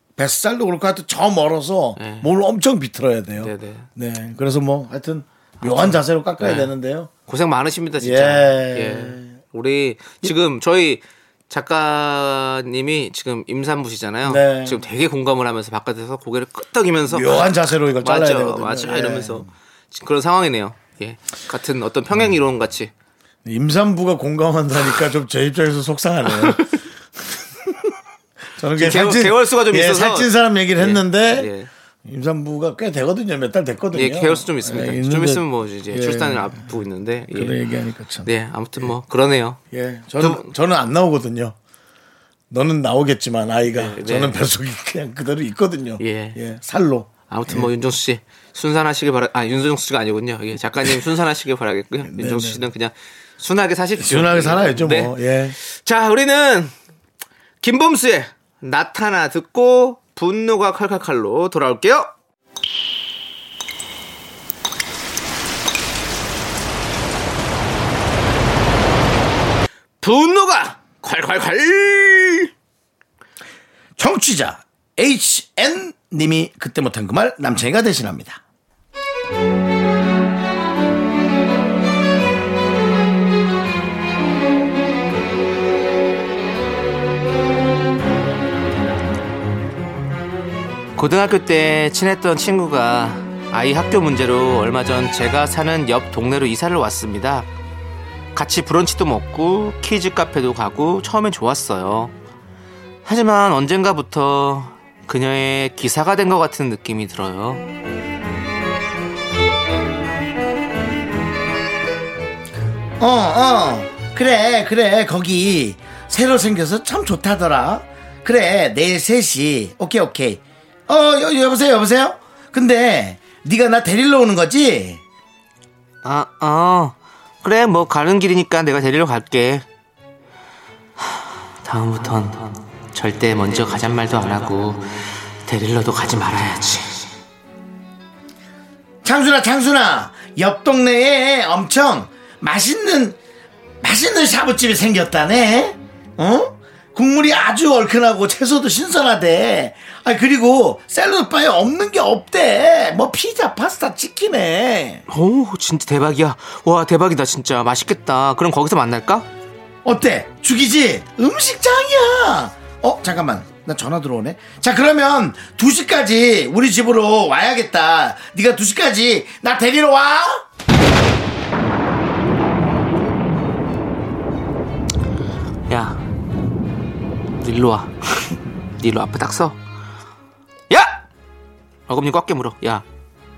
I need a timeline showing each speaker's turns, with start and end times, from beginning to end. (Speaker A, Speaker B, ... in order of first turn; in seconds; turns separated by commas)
Speaker A: 0.2-7.1, Speaker B: 2.0-2.3, Speaker B: 3.4-3.9, Speaker B: 5.6-6.7, Speaker B: 7.3-22.9, Speaker A: 8.0-9.3, Speaker A: 14.2-14.8, Speaker A: 17.1-19.5, Speaker A: 23.4-26.8, Speaker B: 26.3-26.7, Speaker A: 27.4-27.9, Speaker A: 28.6-31.5, Speaker B: 28.7-31.7, Speaker A: 32.0-36.6, Speaker B: 33.9-37.6, Speaker A: 37.3-38.9, Speaker B: 38.2-39.6, Speaker A: 39.7-41.5, Speaker B: 40.2-40.5, Speaker A: 42.5-47.7, Speaker B: 43.7-44.4, Speaker B: 46.0-46.4, Speaker B: 47.3-56.7, Speaker A: 52.0-52.6, Speaker A: 54.0-55.5, Speaker B: 57.6-62.1, Speaker B: 70.0-72.5, Speaker A: 74.0-78.4, Speaker B: 91.0-97.5, Speaker B: 98.3-102.1, Speaker B: 103.0-107.6, Speaker A: 113.0-125.0, Speaker B: 126.0-129.6, Speaker B: 131.6-137.1, Speaker A: 139.0-143.2, Speaker A: 143.8-155.0, Speaker B: 155.1-159.2, Speaker A: 159.8-170.4, Speaker B: 175.7-176.0, Speaker B: 177.4-179.6, Speaker B: 180.7-181.0, Speaker B: 181.9-182.8